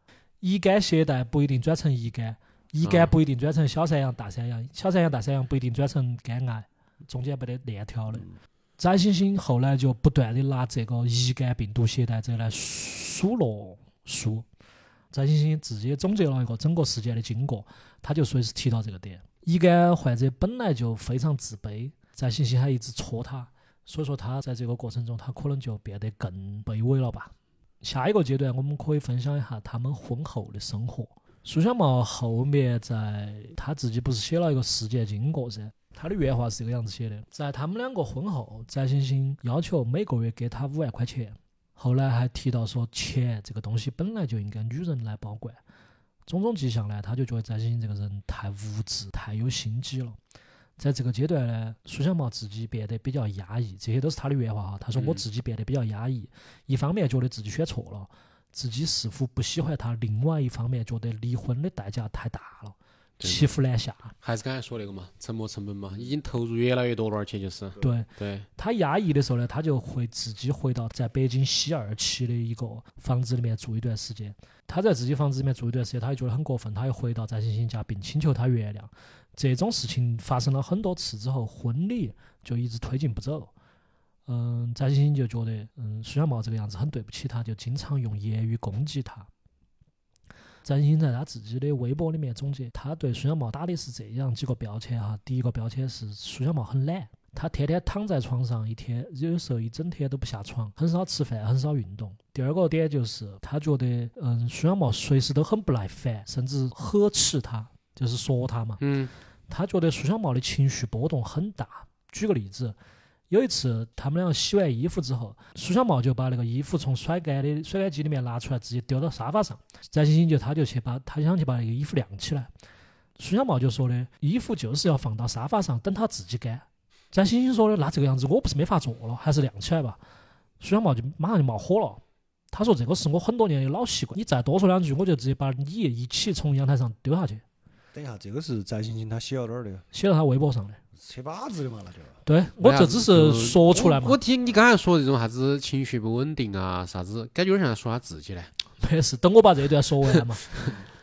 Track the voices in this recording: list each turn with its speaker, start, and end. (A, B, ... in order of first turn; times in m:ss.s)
0:00.4-0:08.2 A
0:02.8-0:03.1 B
0:08.8-0:14.4 A
0:15.1-0:45.6 A
0:46.3-0:50.2 A
0:50.8-1:04.1 A
0:54.9-0:55.2 B
1:03.2-1:03.5 B
1:04.2-1:08.5 B
1:07.8-1:23.5 A
1:24.3-1:29.3 A
1:30.6-1:48.8 A
1:48.8-1:49.1 B
1:49.5-1:52.8 A
1:53.3-2:02.5 A
2:03.2-2:10.0 A
2:10.6-2:17.4 A
2:17.9-2:19.8 C
2:19.9-2:20.8 A
2:21.0-2:22.2 C
2:22.2-2:24.2 A
2:22.6-2:28.5 B
2:28.8-2:30.5 A